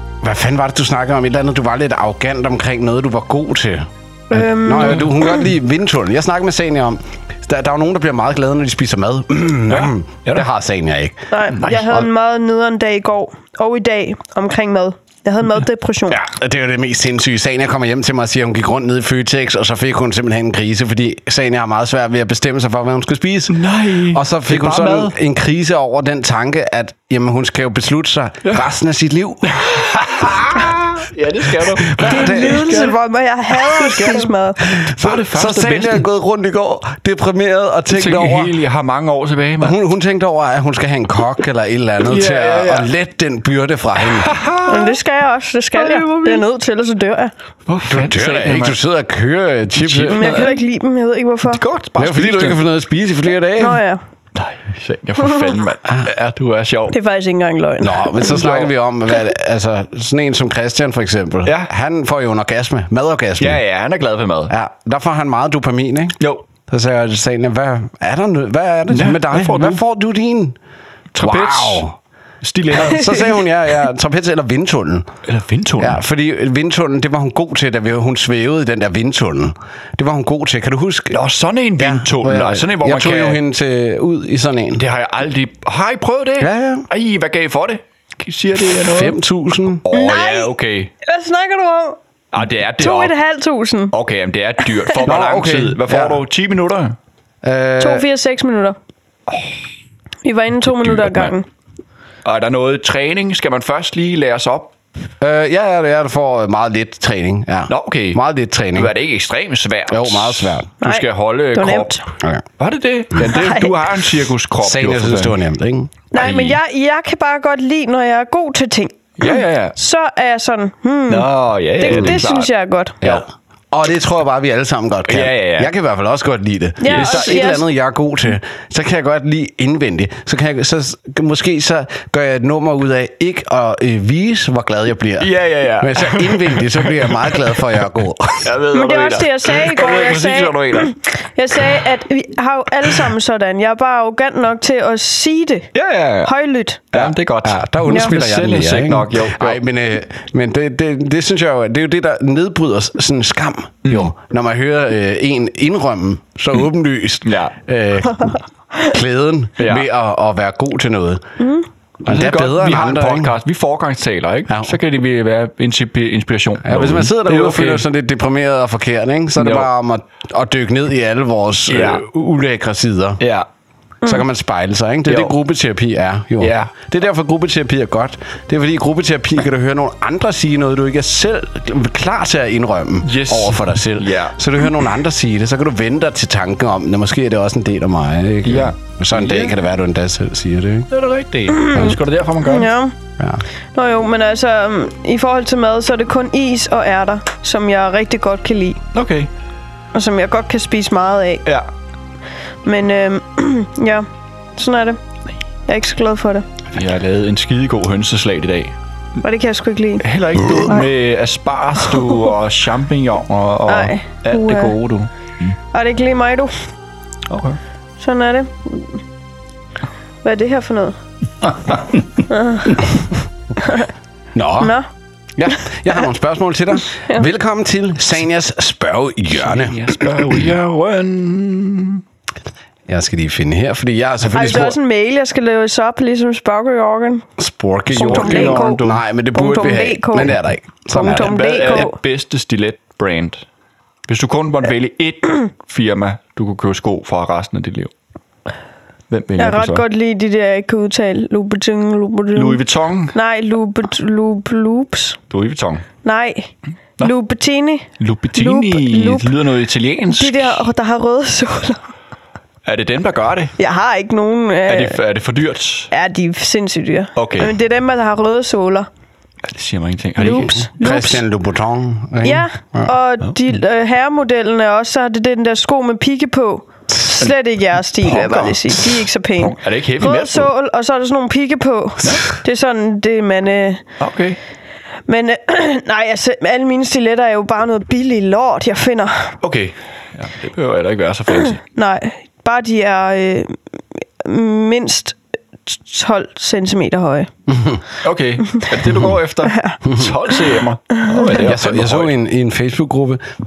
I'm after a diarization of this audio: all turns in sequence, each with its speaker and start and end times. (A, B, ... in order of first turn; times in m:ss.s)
0:00.2-0:12.1 A
0:04.3-0:05.3 B
0:09.7-0:10.4 C
0:11.3-0:16.2 B
0:16.1-0:29.6 A
0:23.5-0:25.1 C
0:29.5-0:33.0 C
0:31.7-0:32.8 A
0:32.0-0:34.7 B
0:33.6-0:36.0 C
0:34.7-0:38.5 A
0:37.9-0:39.8 C
0:39.6-0:44.3 A
0:42.0-0:42.9 C
0:44.0-0:45.0 C
0:44.6-0:47.3 B
0:45.7-0:46.4 C
0:47.7-0:48.8 C
0:47.9-0:50.5 A
0:49.8-0:50.6 C
0:50.1-0:51.6 B
0:51.5-0:52.6 C
0:52.0-0:53.8 A
0:53.6-0:54.0 B
0:54.3-0:56.9 C
0:56.9-0:58.5 B
0:57.8-1:03.6 A
0:58.2-0:58.7 C
1:01.4-1:01.7 C
1:03.4-1:04.5 C
1:04.5-1:10.6 A
1:06.2-1:06.4 C
1:08.9-1:09.8 C
1:11.1-1:11.8 C
1:11.2-1:12.0 A
1:12.4-1:13.4 C
1:12.7-1:15.1 A
1:15.3-1:16.0 C
1:15.8-1:21.2 A
1:21.1-1:23.4 C
1:21.8-1:24.8 A
1:24.8-1:29.2 C
1:26.4-1:26.9 A
1:28.7-1:29.8 A
1:29.8-1:30.9 C
1:29.9-1:32.0 B
1:32.3-1:33.1 C
1:32.8-1:33.9 B
1:33.9-1:37.0 C
1:35.0-1:36.2 A
1:37.4-1:38.0 A
1:37.8-1:38.8 B
1:39.3-1:39.5 C
1:40.2-1:41.4 B
1:40.6-1:41.3 C
1:42.2-1:44.7 C
1:45.2-1:48.9 A
1:47.7-1:48.2 C
1:48.7-1:52.0 C
1:49.9-1:50.7 A
1:50.8-1:52.0 B
1:52.6-1:55.4 C
1:53.2-1:53.8 B
1:54.6-1:55.9 A
1:56.1-2:03.0 B
1:56.1-1:56.6 C
1:59.2-1:59.8 C
2:01.1-2:02.5 C
2:01.9-2:02.2 A
2:03.0-2:18.5 A
2:05.1-2:05.7 C
2:06.8-2:07.6 B
2:06.8-2:07.5 C
2:15.2-2:17.7 C
2:18.4-2:20.9 C
2:18.7-2:25.7 B
2:25.7-2:26.3 C
2:26.2-2:26.8 B
2:26.9-2:29.6 C
2:26.9-2:41.2 A
2:37.2-2:37.5 C
2:39.6-2:39.8 C
2:41.4-2:41.6 B
2:42.0-2:43.3 A
2:42.0-2:47.8 C
2:44.5-2:44.8 A
2:46.6-2:53.2 A
2:49.4-2:49.7 C
2:51.7-2:52.0 C
2:53.2-2:53.5 C
2:54.0-3:10.9 A
2:55.0-2:55.3 C
2:56.4-2:56.7 C
3:03.0-3:04.4 C
3:08.4-3:09.5 C
3:10.9-3:12.7 C
3:11.5-3:12.9 B
3:11.7-3:12.0 A
3:13.7-3:18.8 B
3:18.9-3:19.3 C
3:19.9-3:21.4 B
3:22.6-3:25.0 B
3:25.7-3:26.4 B
3:26.7-3:28.7 C
3:29.2-3:30.0 B
3:30.0-3:35.1 C
3:33.7-3:34.7 B
3:35.7-3:36.5 B
3:37.3-3:37.6 C
3:38.0-3:39.0 B
3:40.2-3:41.0 B
3:41.5-3:42.0 C
3:42.3-3:42.8 B
3:43.6-3:43.9 B
3:44.3-3:44.8 A
3:44.6-3:44.9 B
3:45.4-3:50.5 A
3:46.9-3:47.3 B
3:49.3-3:52.0 C
3:52.9-3:54.8 A
3:54.3-3:57.2 B
3:57.4-4:01.4 A
3:57.9-3:58.8 B
3:58.0-3:59.0 C
3:59.3-4:00.3 B
4:00.9-4:02.0 B
4:01.0-4:03.4 C
4:04.1-4:07.9 C
4:09.1-4:09.8 C
4:09.4-4:12.6 B
4:12.3-4:13.1 C
4:13.1-4:15.2 B
4:15.3-4:15.8 C
4:16.0-4:19.3 B
4:18.0-4:20.6 C
4:20.1-4:21.8 B
4:22.6-4:23.5 C
4:23.6-4:25.0 B
4:24.7-4:25.9 C
4:25.9-4:28.9 B
4:27.2-4:27.5 C
4:29.4-4:30.6 C
4:30.2-4:31.2 B
4:30.7-4:32.9 A
4:32.2-4:43.8 B
4:38.0-4:40.5 C
4:44.0-4:44.4 C
4:45.1-4:49.3 B
4:49.4-4:51.6 C
4:51.5-4:53.6 B
4:54.2-4:57.3 B
4:57.5-4:57.8 A
4:58.0-5:02.1 C
4:59.5-4:59.8 B
4:59.8-5:00.2 A
5:01.4-5:03.2 A